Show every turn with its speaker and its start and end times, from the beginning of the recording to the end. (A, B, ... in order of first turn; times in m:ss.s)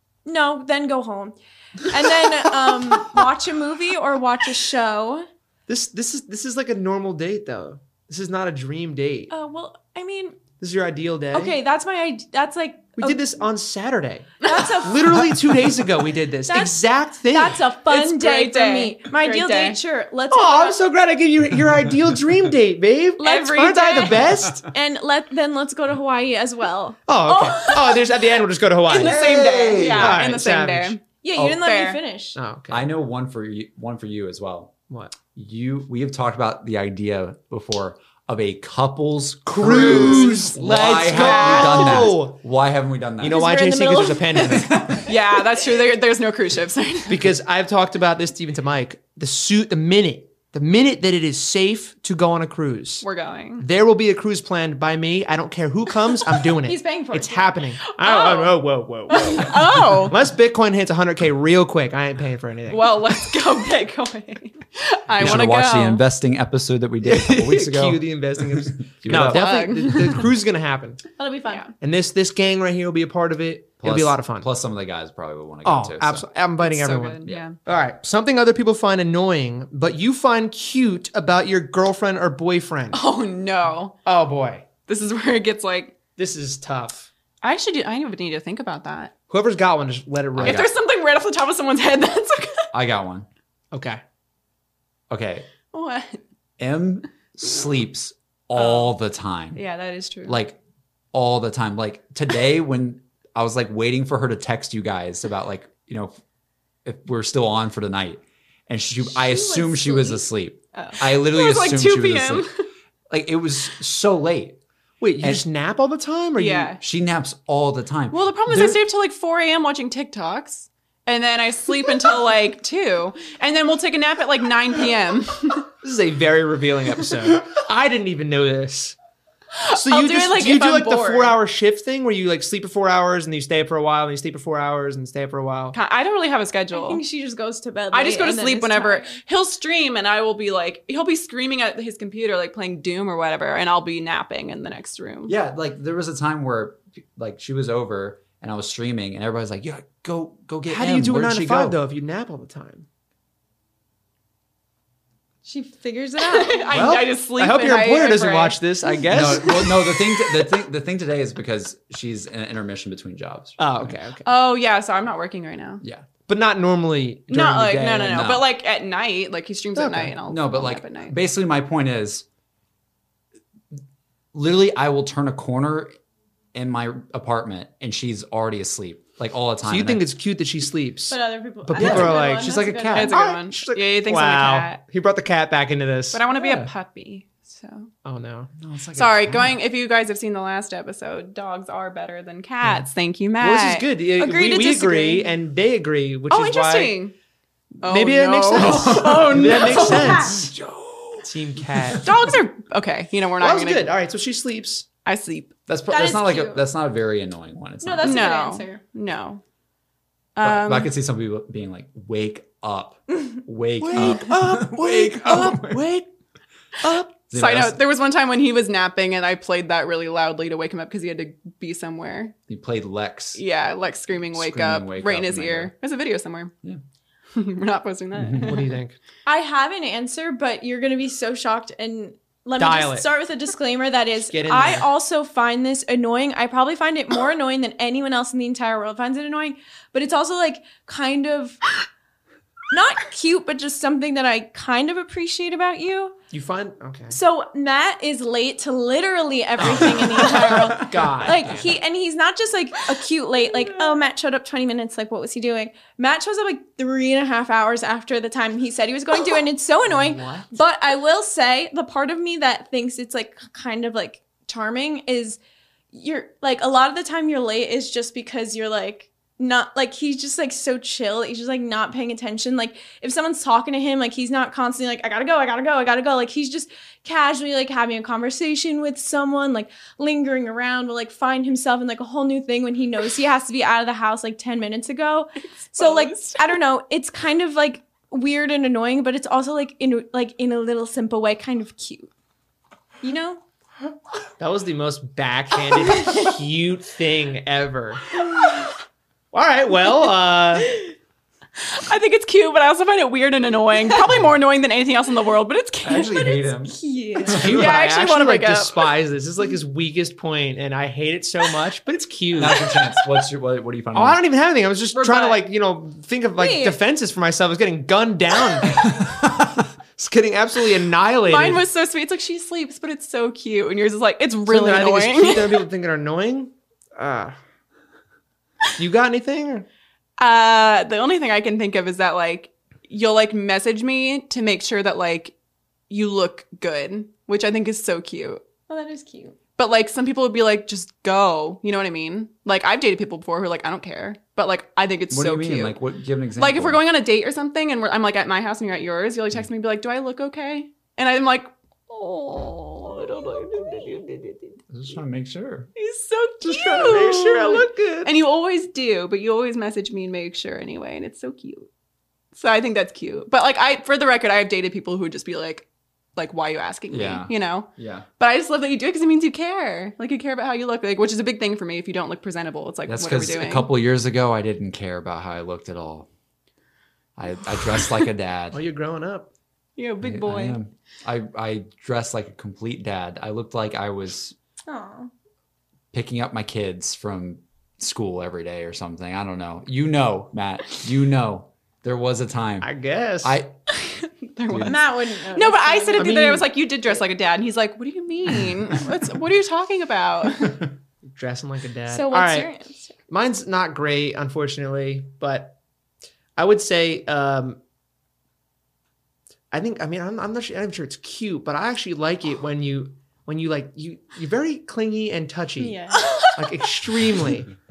0:00.2-0:05.3 A
0:05.7-0:09.3 B
0:09.3-0:10.4 A
0:10.6-0:11.6 B
0:11.3-0:13.2 A
0:13.0-0:17.6 B
0:14.4-0:14.7 C
0:14.4-0:15.3 A
0:16.5-0:20.8 A
0:17.9-0:19.8 C
0:20.3-0:24.6 B
0:23.2-0:28.0 A
0:23.2-0:24.2 C
0:27.1-0:31.0 B
0:28.9-0:32.0 C
0:29.0-0:30.2 D
0:31.2-0:32.4 A
0:32.3-0:32.9 B
0:32.7-0:34.7 D
0:35.3-0:43.4 D
0:39.5-0:42.4 B
0:41.1-0:42.1 C
0:43.2-0:44.9 B
0:43.3-0:44.6 A
0:44.4-0:45.1 D
0:45.0-0:47.3 C
0:47.1-0:53.0 B
0:53.0-0:53.6 C
0:53.6-1:02.9 B
0:56.6-0:57.5 A
0:58.0-0:58.5 C
0:59.1-1:00.2 C
1:02.7-1:06.0 C
1:05.2-1:09.4 D
1:07.0-1:11.0 B
1:09.1-1:10.3 C
1:11.2-1:11.7 A
1:11.8-1:14.5 B
1:13.8-1:16.2 D
1:15.6-1:23.0 B
1:16.6-1:17.6 C
1:22.9-1:24.0 C
1:24.0-1:24.6 B
1:24.9-1:25.9 C
1:26.2-1:27.1 B
1:27.4-1:29.1 C
1:29.3-1:30.6 B
1:30.4-1:30.7 D
1:30.4-1:32.7 C
1:32.7-1:33.3 D
1:33.7-1:34.0 B
1:35.1-1:35.5 D
1:35.7-1:36.2 C
1:36.6-1:39.6 D
1:38.6-1:38.9 C
1:39.5-1:40.4 C
1:40.3-1:40.6 D
1:41.1-1:46.1 D
1:46.8-1:52.5 D
1:49.1-1:50.2 A
1:50.7-1:52.5 C
1:53.1-1:54.6 D
1:55.0-1:56.7 B
1:56.4-1:56.8 C
1:56.8-1:58.8 D
1:58.1-2:05.7 C
2:05.8-2:09.0 B
2:09.6-2:11.4 C
2:09.7-2:15.8 B
2:15.7-2:17.0 C
2:16.7-2:19.2 A
2:17.9-2:25.3 C
2:25.2-2:31.8 D
2:30.6-2:32.8 B
2:35.4-2:36.8 A
2:36.2-2:38.6 C
2:36.7-2:39.7 B
2:39.1-2:44.0 D
2:39.3-2:39.8 C
2:43.6-2:44.2 B
2:44.2-2:45.8 C
2:46.3-2:48.3 B
2:47.3-2:51.2 C
2:48.1-2:48.4 D
2:49.8-2:50.2 B
2:50.3-2:52.2 D
2:54.3-2:55.9 D
2:56.5-3:00.0 D
2:59.6-3:06.6 B
3:01.1-3:03.2 A
3:01.7-3:02.2 D
3:02.9-3:04.8 C
3:06.1-3:07.9 C
3:08.0-3:08.5 B
3:08.6-3:09.6 D
3:08.9-3:13.9 C
3:13.4-3:17.0 B
3:14.2-3:15.3 A
3:16.3-3:17.1 C
3:17.8-3:20.3 C
3:17.8-3:20.5 B
3:18.6-3:22.2 D
3:19.8-3:20.4 A
3:21.2-3:22.1 B
3:22.0-3:23.9 C
3:23.4-3:24.9 B
3:25.0-3:25.5 C
3:25.7-3:28.2 D
3:25.9-3:26.6 A
3:27.8-3:28.8 A
3:28.0-3:29.4 C
3:30.4-3:30.9 C
3:30.4-3:35.8 D
3:33.8-3:36.1 B
3:36.8-3:37.1 B
3:37.3-3:37.8 D
3:37.3-3:42.3 C
3:42.5-3:43.4 D
3:43.3-3:46.5 C
3:44.3-3:45.7 D
3:47.3-3:48.8 C
3:48.1-3:48.6 D
3:48.4-3:49.0 B
3:49.2-4:01.7 A
3:52.6-3:53.1 B
3:54.3-3:54.9 B
4:02.7-4:06.2 A
4:06.3-4:07.2 B
4:07.1-4:25.4 A
4:09.6-4:11.7 B
4:09.6-4:10.7 D
4:19.9-4:20.5 B
4:25.9-4:52.1 A
4:45.7-4:46.6 C
4:53.0-4:53.4 A
4:54.4-4:58.0 B
4:59.3-5:00.8 B
5:01.6-5:06.2 C
5:05.8-5:07.7 D
5:06.1-5:07.4 A
5:07.3-5:12.7 B
5:07.3-5:08.9 C
5:12.4-5:14.2 D
5:13.9-5:18.8 B
5:14.9-5:15.4 C
5:16.4-5:16.8 A
5:18.8-5:19.6 D
5:20.0-5:21.6 B
5:21.3-5:25.6 C
5:24.5-5:27.4 B
5:28.8-5:29.6 B
5:30.2-5:35.3 C
5:35.9-5:38.4 C
5:38.7-5:39.4 A
5:39.6-5:45.8 C
5:45.1-5:46.8 D
5:46.4-5:54.6 C
5:54.7-5:55.7 D
5:55.8-6:01.7 C
5:56.4-5:58.1 B
6:02.3-6:13.7 C
6:06.9-6:08.1 D
6:12.8-6:16.1 D
6:17.2-6:18.6 D
6:18.5-6:19.3 B
6:19.8-6:20.6 C
6:20.0-6:24.3 D
6:24.7-6:25.1 A
6:25.9-6:32.7 D
6:32.6-6:33.4 B
6:33.2-6:33.5 D
6:33.7-6:40.6 C
6:34.5-6:34.7 D
6:34.6-6:36.2 A
6:35.9-6:36.5 B
6:41.1-6:42.5 B
6:41.9-6:42.9 A
6:43.1-6:45.6 B
6:46.4-6:47.6 B
6:49.5-6:57.5 B
6:55.6-6:56.3 A
6:56.0-6:56.3 C